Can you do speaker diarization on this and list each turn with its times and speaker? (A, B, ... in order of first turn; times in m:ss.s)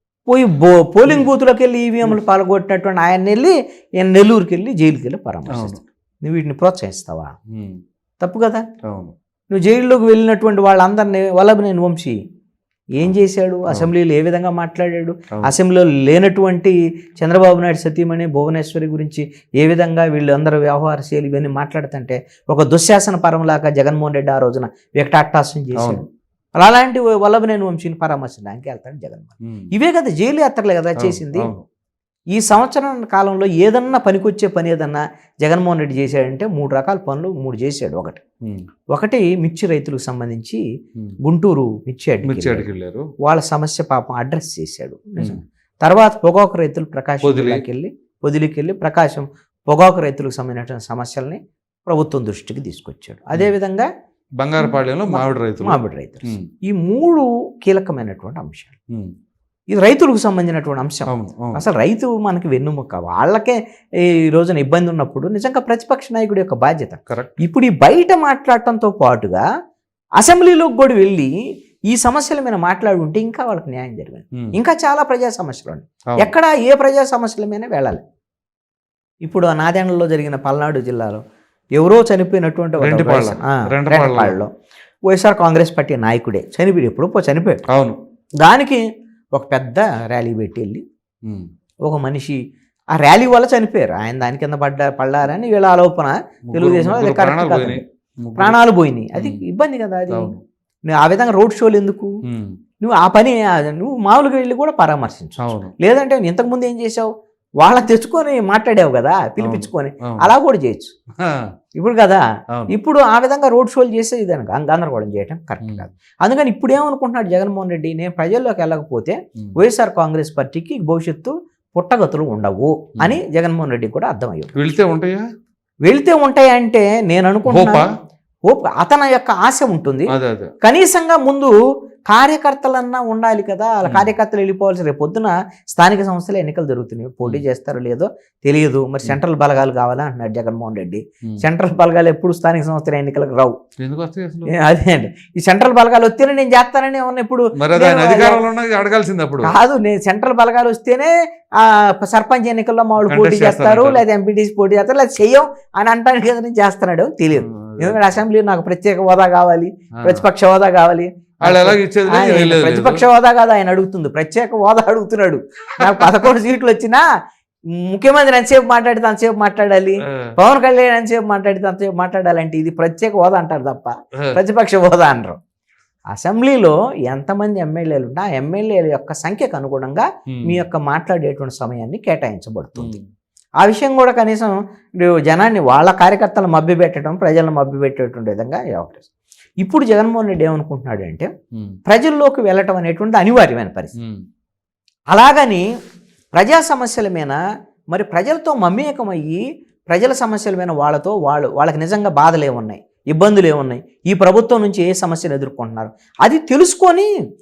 0:00.3-0:07.3 A
0:05.5-0:05.8 B
0:07.5-0:07.8 B
0:08.2-0:08.7 A
0:08.9-0:09.1 B
0:09.5-0:12.2 A
0:13.0-0:26.0 A
0:25.8-0:26.0 B
0:26.6-0:31.5 A
0:31.0-0:31.6 B
0:32.3-0:38.2 A
0:38.9-0:40.6 A
0:41.2-0:53.9 A
0:42.2-0:43.1 B
0:47.2-0:47.6 B
0:54.4-0:56.5 B
0:54.6-0:58.7 A
0:59.7-1:03.6 A
1:01.1-1:01.6 B
1:04.3-1:09.4 A
1:07.1-1:07.4 B
1:10.2-1:11.3 A
1:11.9-1:18.0 A
1:19.2-1:21.2 A
1:21.8-1:24.5 A
1:22.8-1:24.4 B
1:25.1-1:27.6 A
1:27.7-1:28.0 B
1:28.4-1:28.8 A
1:29.4-1:30.8 A
1:31.8-1:32.4 A
1:33.0-1:37.8 A
1:36.5-1:38.6 B
1:38.4-1:40.3 A
1:39.2-1:39.4 B
1:40.1-1:40.4 B
1:40.9-1:42.1 A
1:42.3-1:42.6 B
1:42.8-1:47.1 A
1:45.4-1:45.7 B
1:47.6-1:50.9 A
1:49.4-1:50.3 B
1:51.2-1:51.5 B
1:51.8-2:04.6 A
1:55.6-1:55.9 B
2:04.6-2:05.2 B
2:05.8-2:07.8 A
2:07.5-2:07.9 B
2:08.5-2:11.5 A
2:10.1-2:10.5 B
2:12.1-2:23.6 A
2:13.8-2:14.1 B
2:23.8-2:24.6 B
2:24.5-2:28.4 A
2:27.6-2:29.6 B
2:29.4-2:47.0 A
2:33.0-2:34.0 B
2:37.3-2:38.2 B
2:40.0-2:40.3 B
2:41.4-2:43.0 B
2:45.8-2:46.3 B
2:47.8-2:55.4 A
2:56.1-3:03.0 A
3:00.3-3:00.6 B
3:02.8-3:03.0 B
3:03.6-3:09.1 A
3:09.6-3:11.3 A
3:11.9-3:13.9 A
3:14.0-3:14.2 B
3:15.1-3:15.7 A
3:16.4-3:17.4 A
3:17.9-3:27.1 A